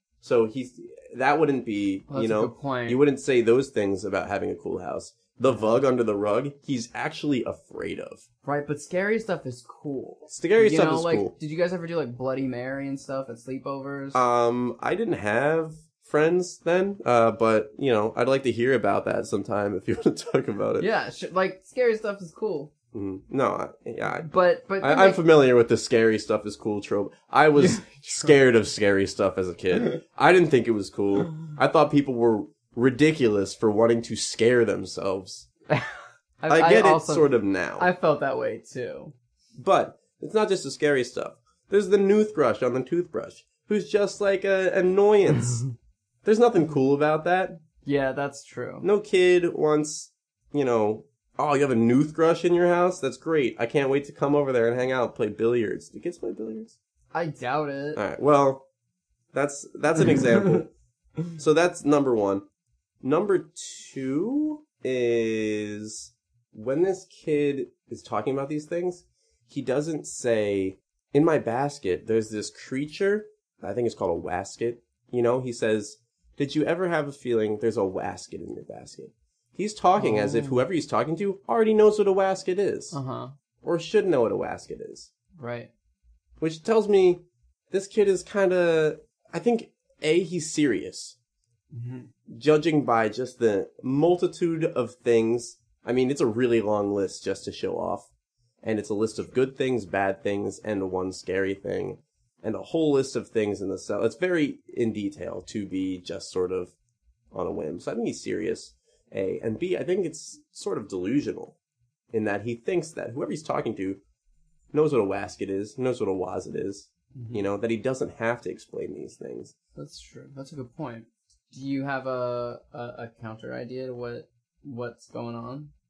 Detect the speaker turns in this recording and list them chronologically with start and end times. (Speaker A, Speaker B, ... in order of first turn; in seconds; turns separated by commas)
Speaker A: 0.2-8.2, Speaker B: 2.1-3.0, Speaker B: 5.5-5.8, Speaker B: 8.4-14.2, Speaker A: 10.3-11.3, Speaker A: 14.1-20.9, Speaker B: 20.8-22.7, Speaker A: 22.9-35.5, Speaker B: 24.3-25.2, Speaker B: 27.6-28.4, Speaker B: 35.7-39.1, Speaker A: 36.5-37.9, Speaker A: 39.6-45.6, Speaker A: 46.2-47.6, Speaker B: 47.9-48.9, Speaker A: 48.8-56.8, Speaker B: 57.1-58.0, Speaker A: 58.0-58.7, Speaker A: 59.3-60.7, Speaker A: 61.4-62.5, Speaker A: 63.0-83.0, Speaker B: 80.0-80.6, Speaker B: 82.9-83.3, Speaker A: 83.6-85.1, Speaker B: 85.4-85.7, Speaker A: 86.4-91.2, Speaker B: 91.7-92.1, Speaker A: 92.3-98.1, Speaker A: 98.6-106.7, Speaker A: 107.3-111.6, Speaker A: 112.1-114.0, Speaker A: 114.7-119.5, Speaker B: 117.2-117.5, Speaker B: 119.8-125.7